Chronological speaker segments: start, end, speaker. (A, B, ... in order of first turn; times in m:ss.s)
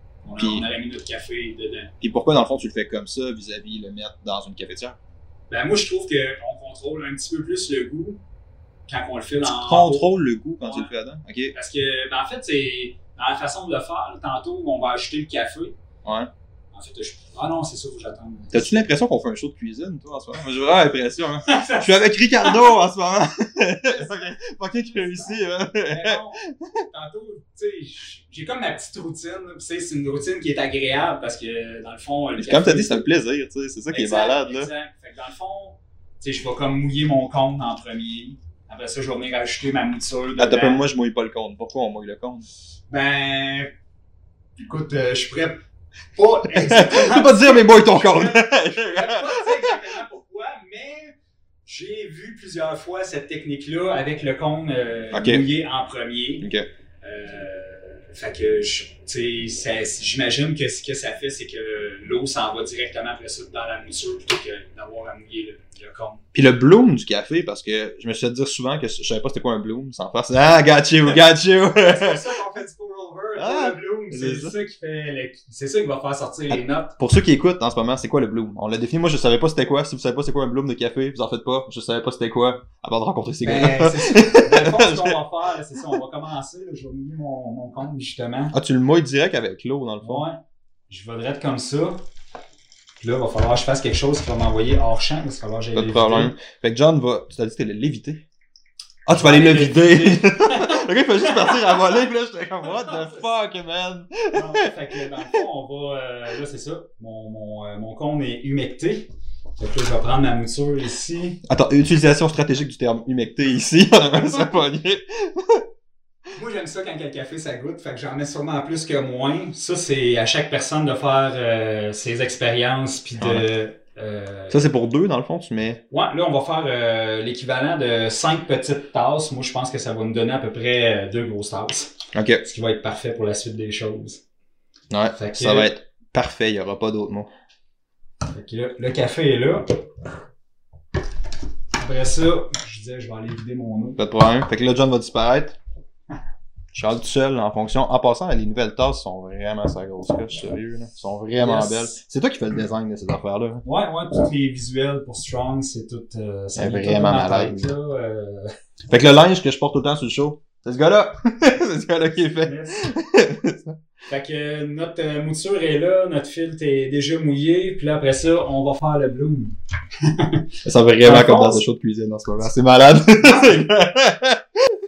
0:00.2-0:01.9 A
0:00.4-0:00.6 B
0:02.0-0:05.0 B
0:05.5-0:08.2 A
0:08.9-0:10.1 A
0:09.4-0:11.5 B
0:10.6-0:10.9 A
0:11.5-0:15.8 A
0:16.0-0:16.3 B
0:16.7-0:18.8 A
0:18.5-0:26.8 B
0:21.4-0:22.8 A
0:23.8-0:33.0 A
0:32.4-0:34.7 B
0:33.9-0:40.8 A
0:40.4-0:42.4 B
0:42.9-0:43.7 A
0:44.6-0:45.6 A
0:46.1-0:56.5 A
0:46.5-0:49.7 B
0:55.1-0:55.4 B
0:57.0-1:06.2 A
1:06.3-1:12.2 B
1:11.8-1:16.9 A
1:13.4-1:14.5 B
1:16.5-1:25.2 B
1:23.4-1:28.5 A
1:28.5-1:30.2 B
1:30.0-1:32.0 A
1:33.0-1:36.3 A
1:35.7-1:38.2 B
1:39.0-1:44.7 B
1:39.1-1:41.8 A
1:42.6-1:43.2 A
1:44.3-1:51.4 A
1:51.4-1:55.6 B
1:56.3-2:04.6 A
2:03.2-2:03.4 B
2:04.5-2:05.8 B
2:05.9-2:14.2 A
2:12.1-2:12.4 B
2:14.9-2:17.3 B
2:15.1-2:15.7 A
2:18.3-2:19.6 A
2:21.8-2:24.0 A
2:24.0-2:25.6 B
2:26.7-2:33.6 B
2:31.4-2:32.0 A
2:33.6-2:38.5 A
2:36.6-2:37.7 B
2:38.9-2:43.8 B
2:42.4-2:42.8 A
2:44.1-2:50.4 A
2:50.6-2:54.4 B
2:51.0-2:51.6 A
2:53.2-2:53.7 A